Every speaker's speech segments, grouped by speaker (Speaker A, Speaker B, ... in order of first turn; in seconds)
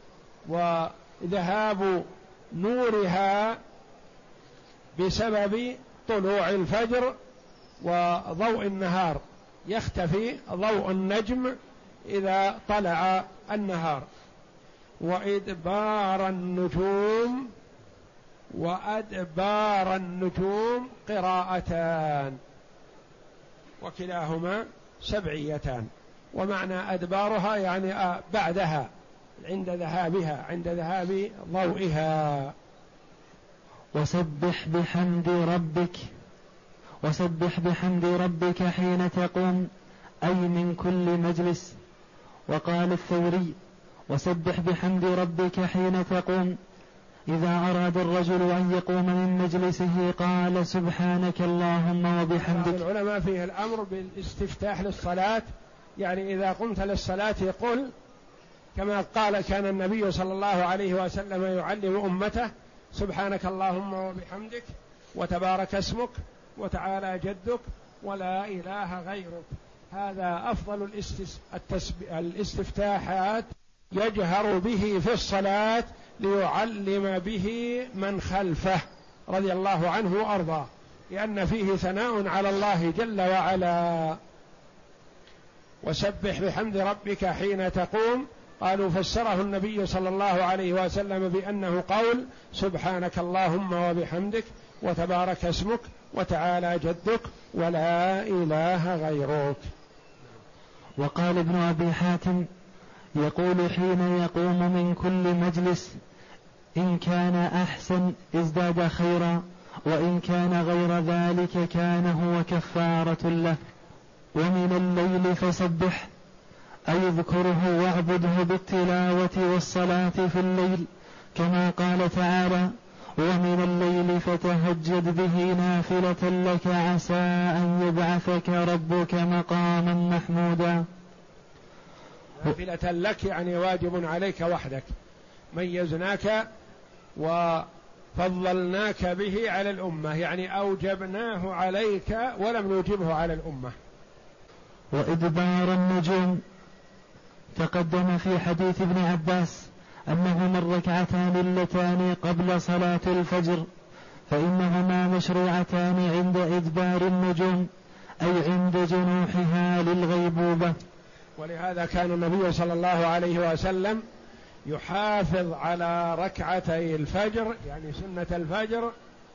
Speaker A: 0.5-3.6, 5.0-7.2, 7.8-14.1, 15.0-17.5, 18.5-22.4, 23.8-32.5, 52.4-55.5, 56.0-57.9, 58.8-84.2, 85.8-99.7, 132.4-134.9, 135.5-136.4, 137.2-143.8, 161.4-164.0, 164.7-168.9
Speaker B: 33.9-36.0, 37.0-39.7, 40.2-41.8, 42.5-43.6, 44.1-46.6, 47.3-52.8, 101.0-102.5, 103.2-106.0, 106.8-113.6, 114.4-116.1, 116.9-130.8, 144.9-146.4, 147.6-153.7, 154.3-157.7, 158.2-160.7